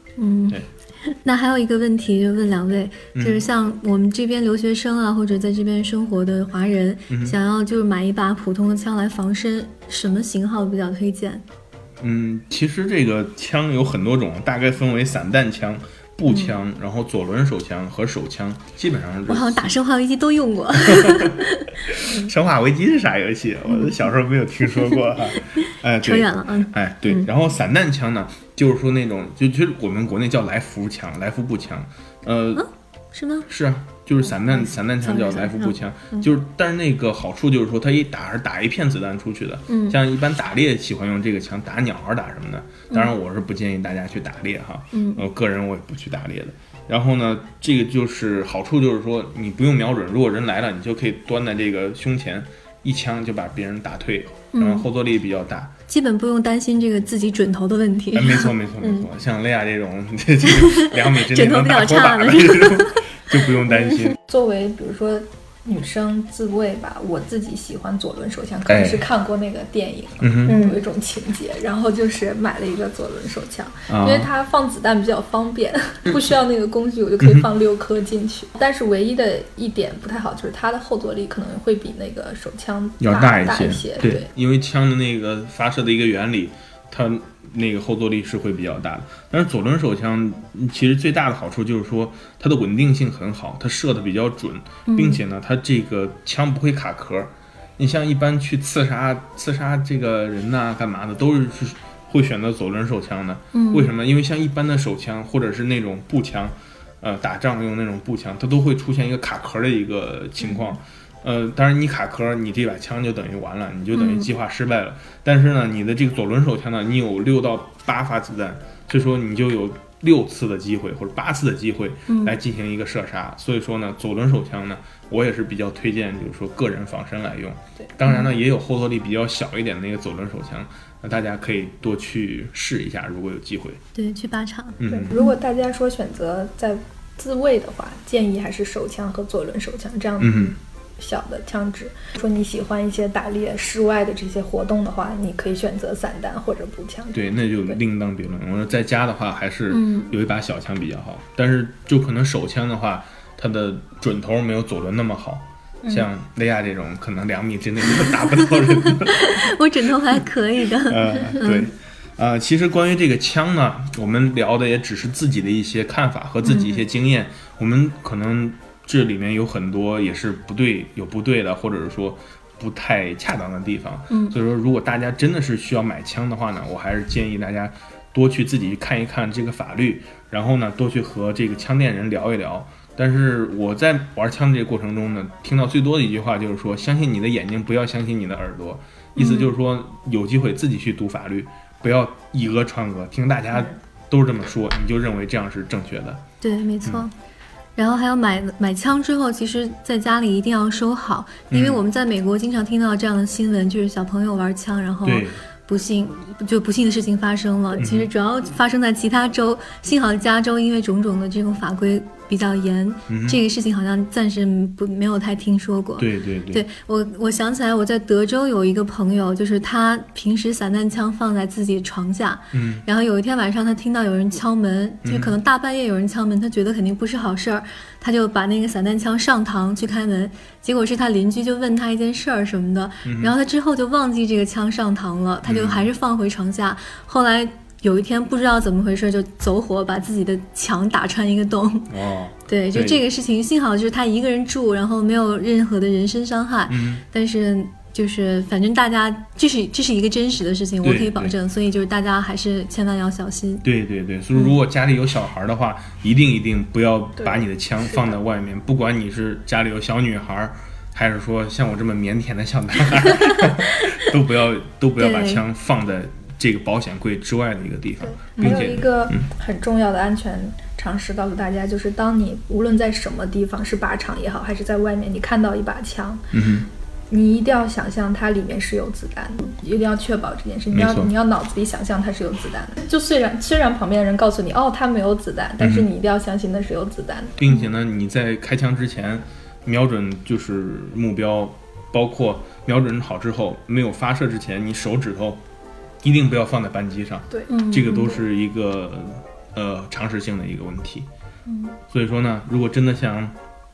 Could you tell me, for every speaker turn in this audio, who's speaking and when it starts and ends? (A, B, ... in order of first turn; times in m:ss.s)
0:00.2-0:11.4 A
0:03.1-0:03.4 B
0:07.1-0:07.4 B
0:12.0-0:19.7 B
0:16.3-0:16.5 A
0:19.3-0:22.3 A
0:20.8-0:32.6 B
0:23.7-0:24.0 A
0:24.6-0:27.3 A
0:32.5-0:33.5 A
0:33.5-0:55.7 B
0:34.4-0:36.3 A
0:39.7-0:40.0 A
0:44.9-0:45.2 A
0:54.5-0:54.9 A
0:55.9-0:59.1 A
0:58.1-1:04.2 B
1:00.4-1:04.1 A
1:04.2-1:24.3 C
1:08.7-1:09.0 B
1:10.2-1:10.6 B
1:10.5-1:10.8 A
1:13.9-1:14.3 B
1:17.2-1:17.5 B
1:23.0-2:13.8 B
1:34.9-1:35.2 A
1:43.5-1:43.9 A
1:53.9-1:54.3 A
2:02.1-2:02.4 A
2:13.9-2:15.4 A
2:14.8-2:15.2 B
2:14.9-2:27.8 C
2:20.2-2:20.5 B
2:27.1-2:39.5 B
2:29.7-2:30.1 A
2:35.8-2:36.1 C
2:38.7-2:41.7 A
2:40.8-3:16.2 B
2:46.4-2:46.8 A
2:54.1-2:54.4 A
3:09.2-3:09.5 A
3:16.4-3:17.1 A
3:17.8-4:01.9 A
3:21.5-3:21.8 B
3:25.0-3:25.4 B
3:27.8-3:28.1 B
3:33.1-3:33.4 B
3:36.0-3:36.6 B
3:42.5-3:42.8 B
3:45.0-3:45.4 B
3:53.0-3:53.4 B
3:55.4-3:55.9 B
4:01.9-4:03.0 B
4:02.5-4:13.6 A
4:06.7-4:07.0 B
4:10.8-4:11.3 B
4:13.6-4:29.3 B
4:17.2-4:18.2 C
4:23.4-4:23.9 A
4:25.0-4:25.4 A
4:28.0-4:36.3 C
4:28.4-4:28.7 A
4:36.3-4:36.7 B
4:37.1-4:47.4 C
4:40.7-4:41.1 B
4:45.6-4:45.9 B
4:47.4-4:55.4 B
4:56.0-5:01.1 B
4:57.5-4:58.2 A
5:01.5-5:01.7 A
5:01.9-5:03.3 B